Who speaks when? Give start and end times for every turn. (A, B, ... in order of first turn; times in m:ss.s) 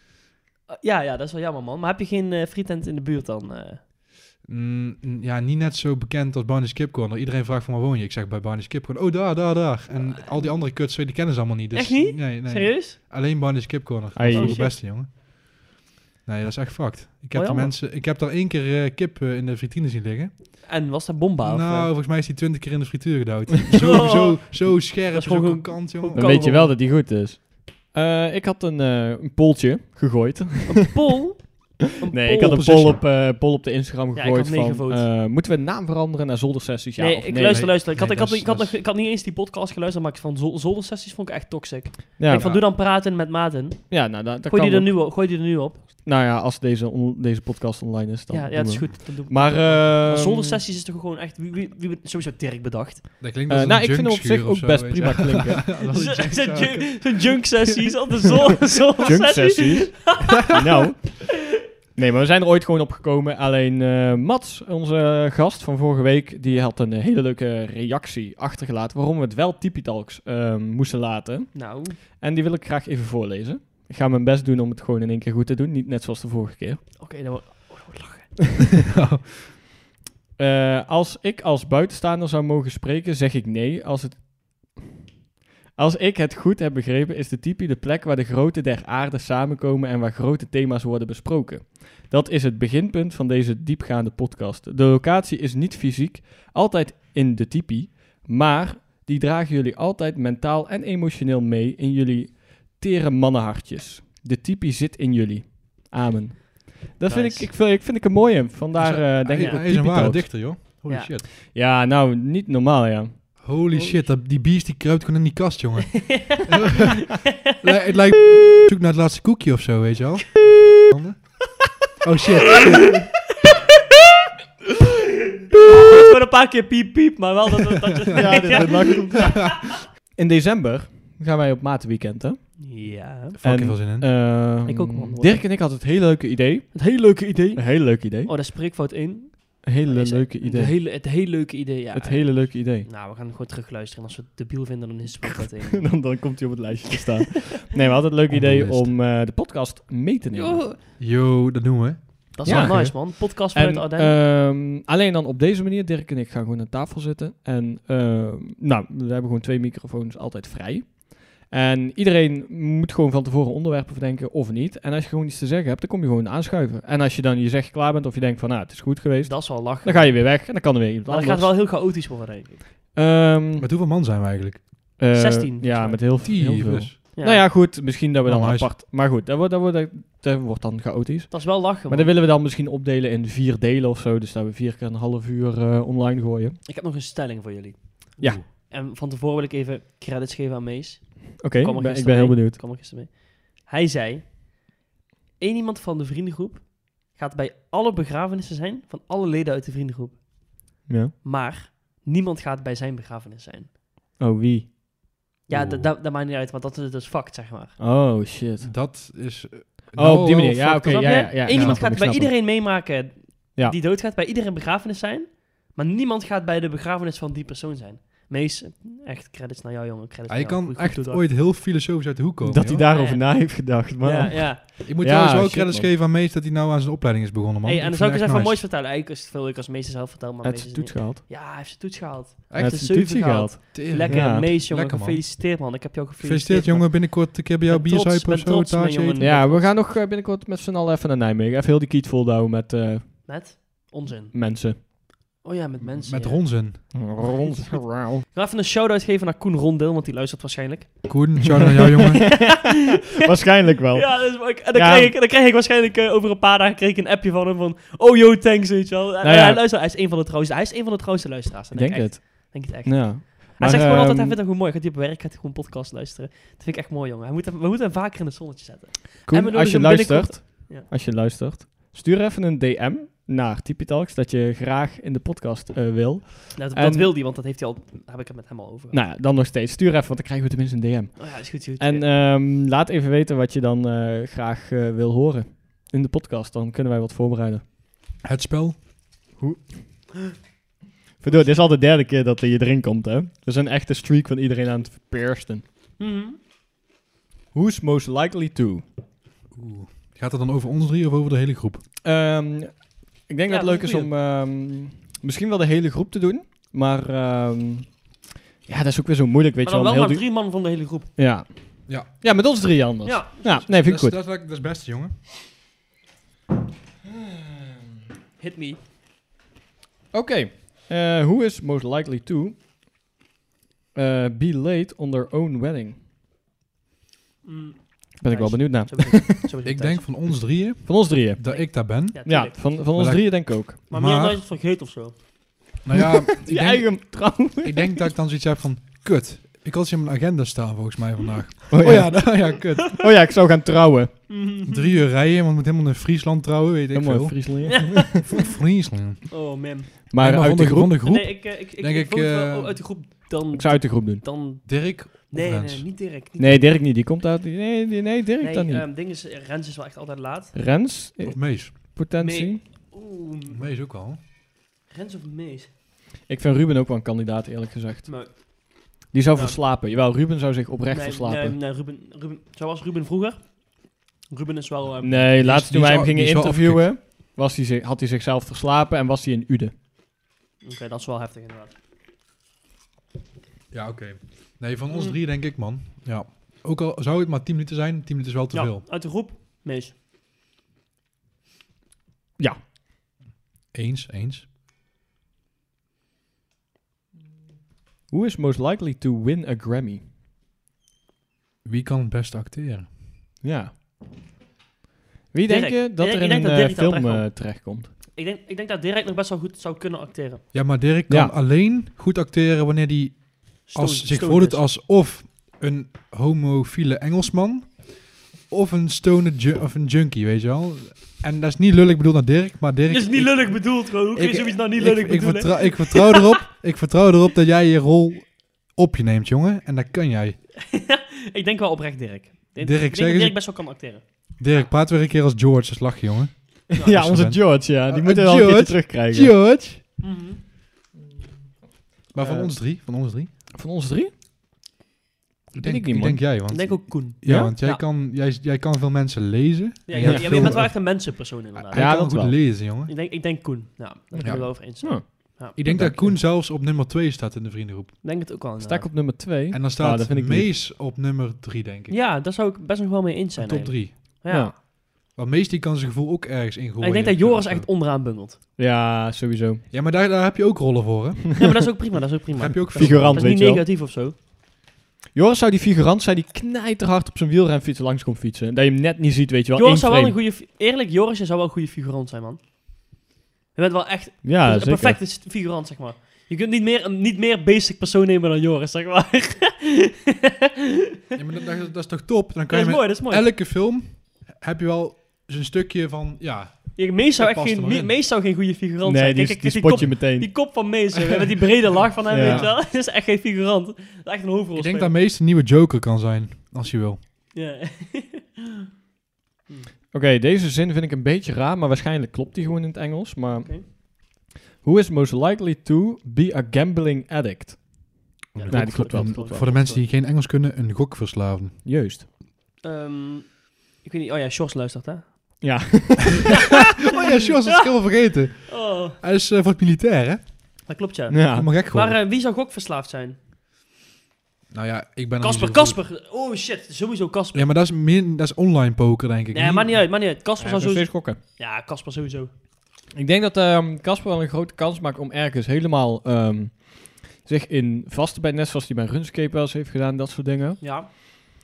0:00.7-0:03.8 A
0:04.4-0:15.2 B
0:09.9-0:10.5 A
0:11.7-0:13.0 A
0:14.1-0:14.6 C
0:14.3-0:14.8 A
0:16.2-0:20.6 B
0:17.3-0:17.7 A
0:20.6-0:21.9 A
0:21.4-0:26.3 B
0:23.7-0:26.8 A
0:26.1-0:30.9 C
0:30.7-0:33.0 A
0:32.0-0:37.7 C
0:34.1-0:35.1 A
0:37.0-0:45.9 A
0:37.5-0:38.8 B
0:42.2-0:42.5 C
0:42.3-0:42.6 B
0:43.9-0:44.9 C
0:46.0-0:50.6 C
0:48.3-0:53.2 A
0:53.2-0:57.9 B
0:53.5-0:55.8 C
0:55.9-1:00.8 A
0:59.0-1:01.3 C
1:01.9-1:16.8 C
1:11.5-1:12.0 A
1:17.0-1:18.5 A
1:18.9-1:19.5 B
1:20.4-1:24.8 C
1:25.8-1:50.5 C
1:47.1-1:47.5 A
1:48.8-1:51.2 B
1:51.3-1:53.2 C
1:53.4-2:01.4 B
1:53.7-1:54.1 A
1:56.0-1:56.4 A
2:02.0-2:03.1 B
2:02.6-2:03.0 A
2:04.8-2:09.4 A
2:08.2-2:09.5 C
2:10.1-2:12.4 C
2:12.6-2:13.4 A
2:13.4-2:14.1 B
2:13.4-2:16.8 C
2:14.6-2:15.4 A
2:16.7-2:26.2 A
2:17.5-2:18.3 C
2:19.6-2:20.8 C
2:21.9-2:22.9 C
2:25.2-2:30.6 C
2:27.0-2:27.6 A
2:28.3-2:28.9 B
2:30.3-2:30.8 A
2:31.0-2:32.9 B
2:32.3-2:34.2 A
2:32.4-2:51.5 C
2:49.2-2:52.6 A
2:52.9-2:53.7 C
2:53.6-2:54.7 B
2:55.0-3:06.6 C
2:55.1-2:56.2 A
2:56.2-2:57.0 B
2:57.1-2:57.4 A
2:58.2-2:58.7 B
3:01.3-3:02.1 A
3:06.6-3:14.4 A
3:08.2-3:08.4 B
3:11.4-3:12.6 C
3:15.4-3:20.2 A
3:20.9-3:21.1 C
3:21.2-3:23.7 A
3:24.2-3:24.7 C
3:25.5-3:27.8 A
3:25.5-3:25.9 B
3:27.8-3:28.7 C
3:28.6-3:31.9 B
3:29.9-3:32.3 C
3:30.8-3:41.2 A
3:40.3-3:42.8 B
3:42.4-3:45.9 C
3:42.8-3:44.7 A
3:44.8-3:48.6 B
3:47.6-3:59.7 A
3:50.4-3:51.2 C
3:52.5-3:52.8 B
3:52.6-3:54.5 C
3:53.7-3:55.2 B
3:56.2-3:59.2 B
3:59.2-4:03.2 C
4:03.2-4:04.9 A
4:04.3-4:04.8 C
4:05.4-4:11.4 A
4:05.8-4:07.1 B
4:06.9-4:08.2 C
4:11.1-4:12.3 B
4:12.1-4:15.1 C
4:12.2-4:13.2 A
4:13.9-4:30.9 A
4:19.2-4:19.6 C
4:21.7-4:24.4 C
4:29.3-4:37.1 C
4:36.6-4:39.0 A
4:38.9-4:47.6 C
4:41.2-4:42.1 A
4:48.2-4:48.8 B
4:49.4-4:49.7 C
4:51.2-4:55.6 C
4:51.2-4:51.5 A
4:56.0-4:56.4 A
4:57.5-4:58.8 C
4:59.5-5:01.8 B
5:02.0-5:08.0 C
5:03.5-5:04.1 A
5:08.7-5:10.2 C
5:09.6-5:11.1 A
5:11.2-5:14.2 C
5:13.0-5:13.6 A
5:13.5-5:15.2 B
5:18.4-5:18.8 A
5:20.1-5:22.6 C
5:23.9-5:26.0 C
5:27.4-5:30.0 A
5:28.2-5:29.5 C
5:29.6-5:34.4 B
5:30.8-5:33.8 C
5:31.4-5:32.6 A
5:33.9-5:35.1 A
5:35.8-5:43.0 B
5:35.9-5:38.0 C
5:41.7-5:42.4 C
5:43.0-5:44.2 C
5:44.3-5:45.0 A
5:44.6-5:49.3 B
5:46.9-5:48.2 C
5:47.7-5:48.4 A
5:49.3-5:49.9 A
5:50.1-5:51.0 C
5:50.2-5:52.8 B
5:51.0-5:56.7 A
5:53.5-5:54.2 C
5:54.6-5:55.8 B
5:56.4-5:58.8 C
5:58.4-6:00.6 A
6:00.5-6:02.6 C
6:01.2-6:01.7 B
6:02.2-6:03.6 A
6:03.5-6:04.2 B
6:04.9-6:05.7 A
6:06.3-6:08.4 C
6:08.1-6:09.6 A
6:09.1-6:11.6 C
6:10.9-6:15.2 A
6:15.0-6:19.7 C
6:15.1-6:16.9 B
6:20.6-6:21.7 A
6:23.7-6:28.8 B
6:24.9-6:25.2 A
6:28.5-6:29.9 A
6:33.7-6:34.4 B
6:38.1-6:40.0 C
6:41.6-6:42.9 B
6:43.4-6:43.7 C
6:45.3-6:47.9 C
6:45.5-6:47.6 A
6:48.1-6:50.4 A
6:50.5-7:10.4 B
6:51.1-6:51.3 C
6:53.7-6:54.6 A
7:02.9-7:06.4 A
7:10.7-7:14.0 A
7:12.6-7:13.4 B
7:14.4-7:19.8 B
7:16.7-7:19.3 C
7:16.8-7:17.0 A
7:20.0-7:20.4 A
7:22.1-7:23.3 B
7:22.2-7:22.5 C
7:23.5-7:24.1 C
7:25.6-7:32.9 B
7:25.6-7:26.2 C
7:26.5-7:27.8 A
7:27.2-7:27.5 C
7:29.9-7:32.0 A
7:30.0-7:30.7 C
7:31.7-7:32.4 C
7:32.8-7:35.6 A
7:34.1-7:36.2 C
7:34.2-7:37.9 B
7:38.0-7:38.9 A
7:38.6-7:40.5 C
7:39.5-7:42.0 B
7:41.9-7:44.5 A
7:43.4-7:44.0 B
7:44.3-7:44.5 C
7:45.1-7:47.7 B
7:46.8-7:48.4 A
7:48.6-7:49.6 C
7:49.7-7:51.6 B
7:51.4-7:54.1 A
7:52.4-7:53.4 B
7:52.7-7:53.6 C
7:55.1-8:00.2 C
7:59.6-8:02.4 A
8:03.6-8:11.2 A
8:04.2-8:05.0 C
8:11.1-8:17.9 B
8:12.5-8:13.2 A
8:16.8-8:24.9 A
8:18.8-8:20.5 C
8:22.1-8:22.5 C
8:22.1-8:22.6 B
8:24.6-8:27.0 B
8:27.3-8:28.7 A
8:29.9-8:33.8 C
8:34.6-8:37.8 C
8:38.3-8:41.6 B
8:38.4-8:39.8 A
8:38.5-8:39.5 C
8:41.6-8:42.1 C
8:42.6-8:45.5 A
8:45.4-8:46.4 C
8:46.9-8:50.2 B
8:48.4-8:49.0 A
8:50.7-8:53.2 A
8:51.1-8:51.5 C
8:51.4-8:52.0 B
8:54.5-8:55.8 B
8:55.2-8:57.5 A
8:57.3-8:59.8 B
8:59.3-9:02.3 A
9:00.4-9:01.2 C
9:02.9-9:10.6 C
9:10.6-9:10.9 A